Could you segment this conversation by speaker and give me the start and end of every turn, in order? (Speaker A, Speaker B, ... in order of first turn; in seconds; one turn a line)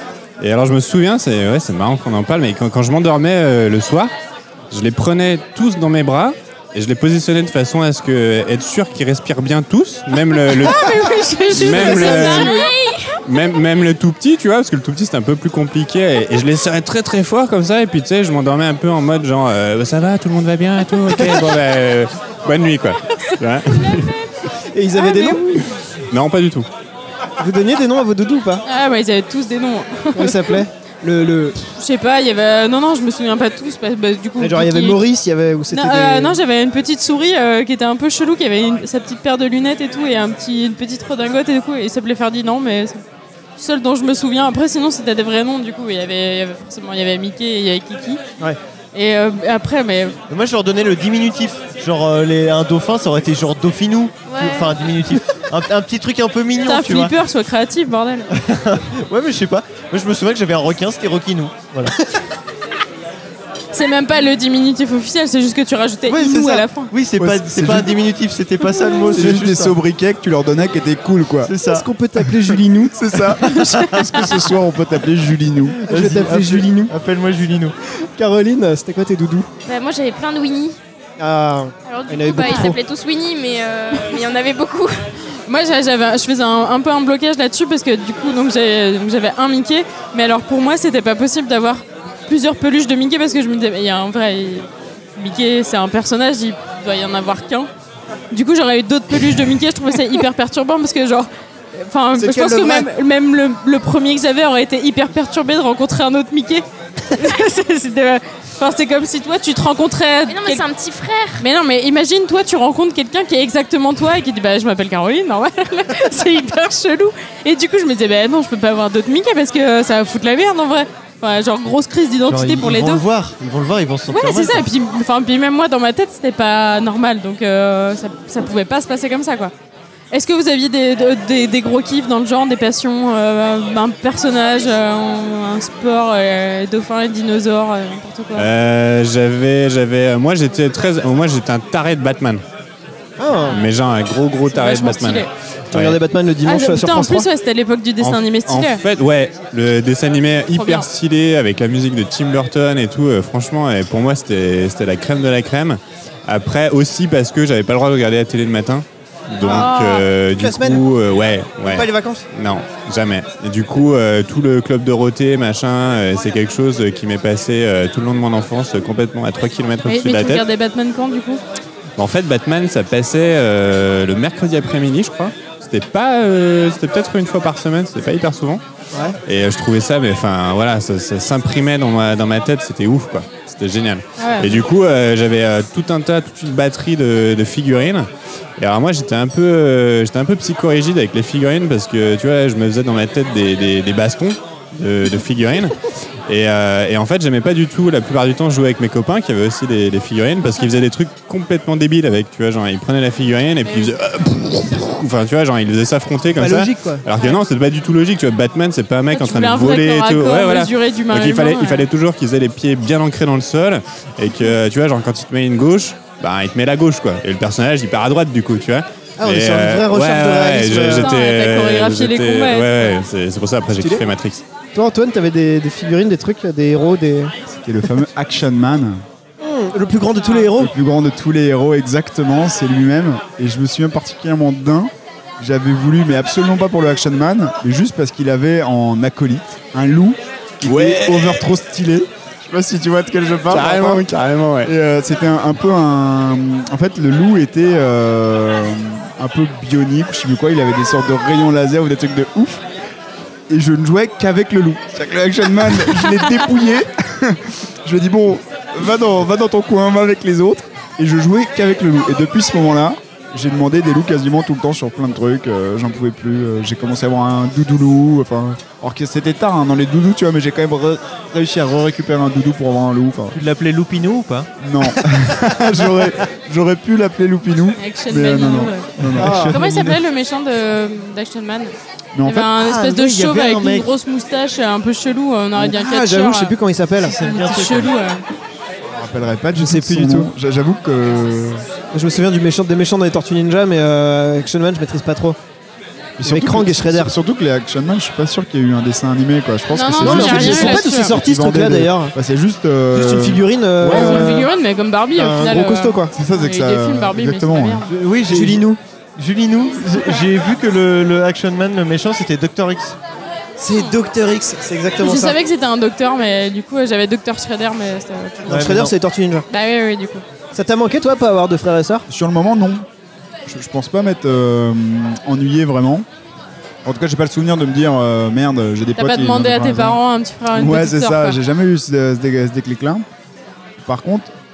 Speaker A: 0.4-4.1
Speaker A: 4.7-10.9
Speaker B: 10.6-12.7
Speaker A: 11.5-12.5
Speaker C: 11.5-12.5
Speaker D: 11.9-13.1
Speaker A: 13.2-24.1
Speaker C: 24.7-25.6
Speaker B: 24.9-25.6
Speaker A: 26.1-26.7
Speaker C: 27.4-28.6
Speaker B: 28.6-30.6
Speaker C: 30.1-31.6
Speaker B: 31.6-35.0
Speaker C: 34.4-36.4
Speaker B: 35.7-43.0
Speaker B: 43.6-48.2
Speaker B: 48.9-50.2
Speaker E: 50.3-57.1
Speaker D: 54.2-54.7
Speaker B: 56.6-58.3
Speaker E: 58.3-61.9
Speaker B: 63.7-66.9
Speaker E: 66.1-69.8
Speaker F: 67.2-67.9
Speaker F: 69.1-71.5
Speaker E: 71.4-71.8
Speaker C: 71.7-73.0
Speaker F: 72.9-75.8
Speaker B: 73.4-74.3
Speaker C: 75.8-76.9
Speaker E: 75.8-77.7
Speaker C: 78.2-79.5
Speaker D: 79.6-80.8
Speaker C: 81.2-82.8
Speaker D: 81.8-85.1
Speaker B: 85.4-97.7
Speaker B: 98.3-110.6
Speaker C: 102.1-102.9
Speaker D: 110.3-111.4
Speaker B: 111.4-123.0
Speaker E: 122.3-124.6
Speaker B: 124.1-129.5
Speaker B: 130.1-138.5
Speaker A: 138.3-142.4
Speaker C: 143.2-143.6
Speaker A: 143.5-146.0
Speaker B: 144.5-145.3
Speaker C: 145.7-147.3
Speaker B: 146.4-148.8
Speaker A: 148.0-170.4
Speaker B: 150.5-150.9
Speaker B: 159.4-160.0
Speaker C: 160.3-160.9
Speaker C: 161.6-162.2
Speaker B: 169.8-171.4
Speaker A: 172.0-178.6
Speaker A: 179.2-224.4
Speaker B: 184.2-184.6
Speaker C: 206.3-207.0
Speaker B: 209.1-211.9
Speaker C: 219.2-221.1
Speaker B: 221.0-223.0
Speaker C: 224.7-227.3
Speaker F: 227.5-229.0
Speaker C: 229.4-230.7
Speaker B: 230.2-230.5
Speaker F: 230.5-244.1
Speaker A: 240.6-241.4
Speaker A: 243.5-244.7
Speaker F: 244.6-252.6
Speaker F: 253.5-273.4
Speaker E: 273.3-274.5
Speaker F: 274.6-279.6
Speaker B: 277.8-278.9
Speaker E: 279.0-280.0
Speaker C: 279.2-279.6
Speaker B: 279.4-286.5
Speaker F: 282.1-282.5
Speaker E: 282.6-283.9
Speaker C: 285.5-287.1
Speaker E: 287.0-287.9
Speaker B: 287.1-288.2
Speaker F: 288.9-291.6
Speaker C: 289.5-290.3
Speaker C: 291.9-295.4
Speaker F: 296.2-304.4
Speaker C: 296.2-297.1
Speaker B: 299.7-301.1
Speaker C: 300.0-302.1
Speaker C: 302.9-304.5
Speaker B: 303.9-307.9
Speaker C: 305.1-306.1
Speaker F: 306.1-307.8
Speaker E: 307.9-313.0
Speaker C: 308.3-308.8
Speaker C: 313.6-315.4
Speaker B: 315.0-318.9
Speaker C: 318.5-319.4
Speaker E: 318.5-318.9
Speaker B: 319.5-320.2
Speaker C: 320.5-322.1
Speaker F: 322.1-322.9
Speaker F: 323.4-326.1
Speaker F: 326.8-330.0
Speaker B: 328.9-331.4
Speaker F: 330.5-333.0
Speaker F: 333.8-334.3